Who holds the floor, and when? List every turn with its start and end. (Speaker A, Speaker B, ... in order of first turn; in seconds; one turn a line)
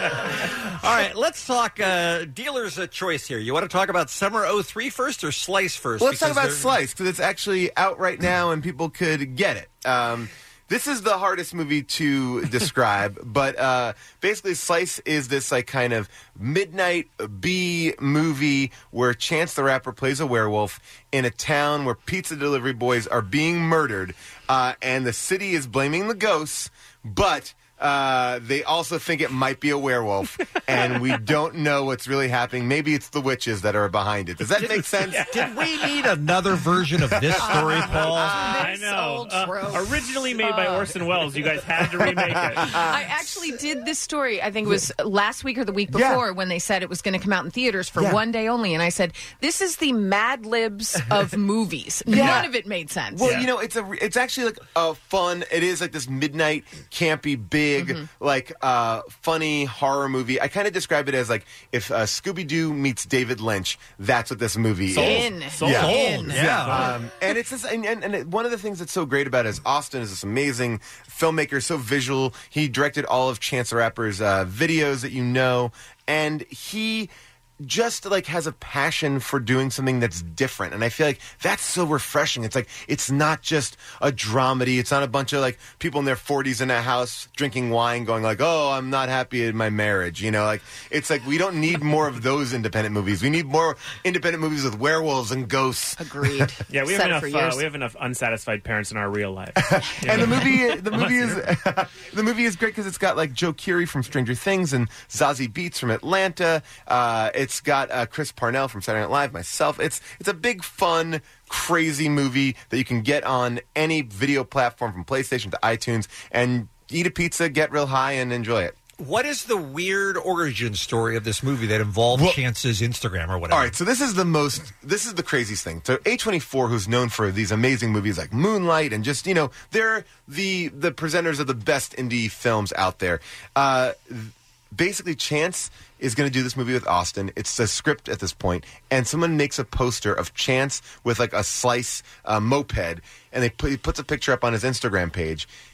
Speaker A: 0.3-6.8
Speaker B: 6.0-35.3
Speaker C: 35.1-35.5
Speaker A: 35.2-38.4
Speaker B: 37.2-38.4
Speaker D: 37.4-40.9
Speaker C: 38.5-42.8
Speaker B: 41.9-43.0
Speaker D: 42.8-53.4
Speaker B: 45.9-46.2
Speaker B: 52.1-52.5
Speaker B: 53.1-96.5
Speaker D: 57.8-58.1
Speaker C: 64.9-67.0
Speaker D: 65.0-66.5
Speaker A: 65.7-66.9
Speaker D: 96.0-97.6
Speaker C: 96.7-101.4
Speaker B: 99.6-118.8
Speaker D: 100.1-100.5
Speaker A: 119.0-123.8
Speaker B: 122.1-122.4
Speaker B: 123.5-145.5